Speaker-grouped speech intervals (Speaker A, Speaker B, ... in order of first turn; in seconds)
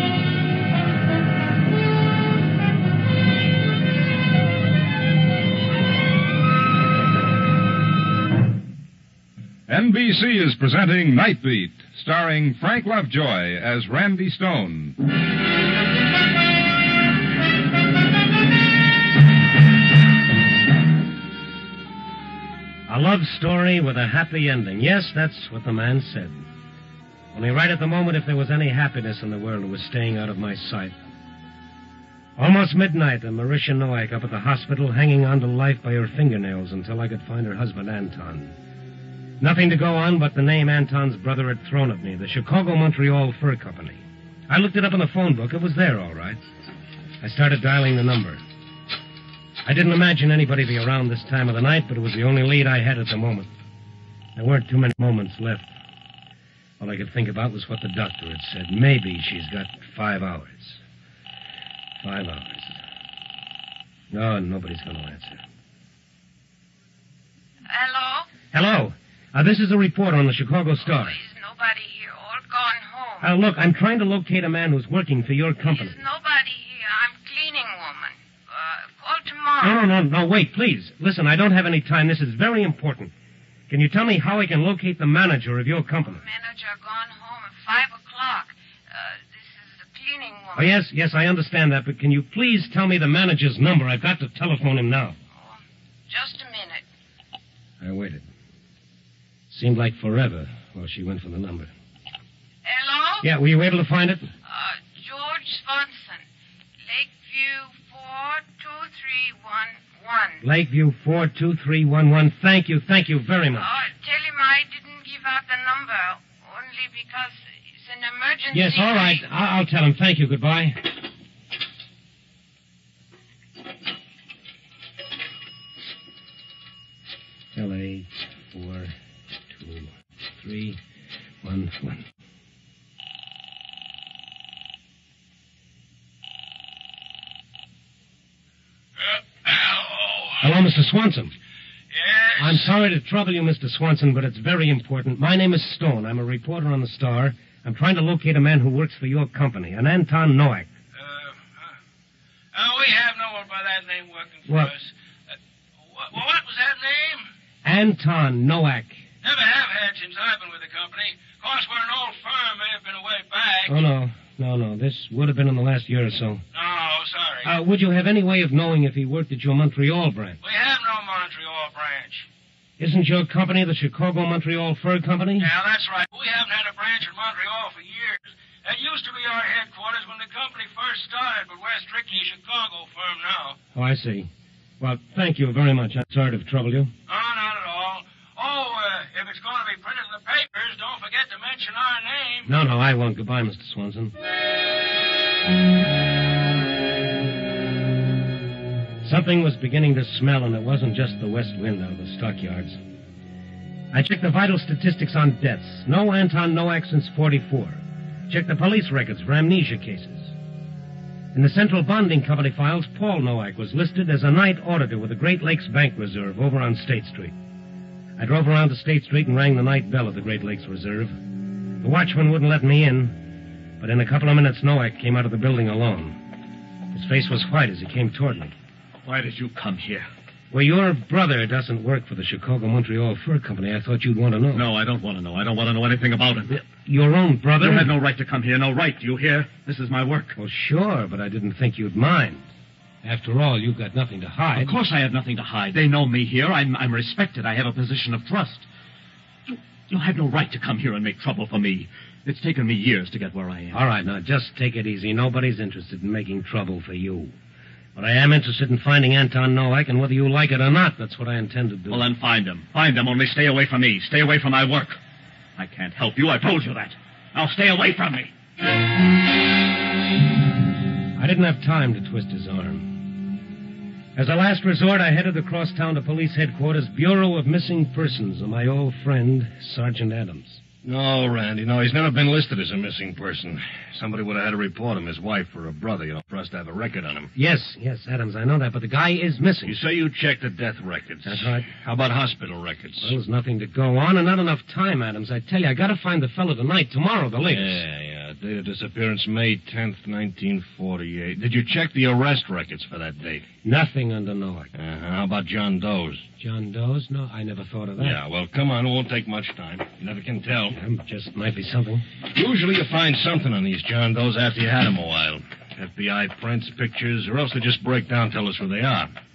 Speaker A: 9.7-14.9
Speaker B: 22.9-26.4, 27.3-30.9, 32.4-38.5, 39.4-46.4, 47.2-48.4, 49.6-53.5, 54.3-55.7, 56.8-60.8, 62.0-62.8, 64.1-65.4, 68.5-71.2, 73.2-76.0, 79.6-83.1, 83.7-86.2, 90.5-95.2, 97.8-98.2, 99.5-101.7, 103.2-104.3, 110.4-113.7, 118.5-120.9, 127.5-128.9, 129.5-130.8, 131.4-132.0, 140.4-141.3, 142.4-150.7, 157.6-159.0, 163.7-166.4, 167.4-170.4, 172.8-175.5, 183.7-186.9, 192.4-194.1, 199.0-202.8, 203.9-210.3, 211.3-217.3, 218.2-221.2, 221.8-223.2, 223.8-226.2, 226.9-228.5, 230.5-234.7, 236.5-237.9, 240.4-242.4, 243.0-244.8, 253.7-257.3, 257.9-262.1, 271.1-273.0, 274.1-280.6, 287.3-289.8, 291.2-291.6, 293.0-297.8, 303.6-304.7, 306.4-308.2, 310.7-312.0
Speaker C: 67.7-68.3, 71.0-73.3, 75.6-79.8, 86.2-90.7, 96.1-96.8, 102.7-103.2, 104.5-106.2, 106.9-110.4, 113.6-119.2
Speaker D: 139.0-140.5, 141.9-142.7, 150.9-151.8, 152.5-155.3, 155.8-157.3, 159.2-163.7, 166.5-167.5, 170.4-172.3, 175.4-183.6, 187.1-192.5
Speaker E: 229.0-230.1, 234.5-236.6, 237.6-240.3, 244.5-248.7, 249.5-253.8, 261.9-265.0, 265.6-268.3
Speaker F: 280.8-287.3, 289.6-293.1, 297.5-303.4, 304.7-306.2, 308.0-310.8, 312.3-319.1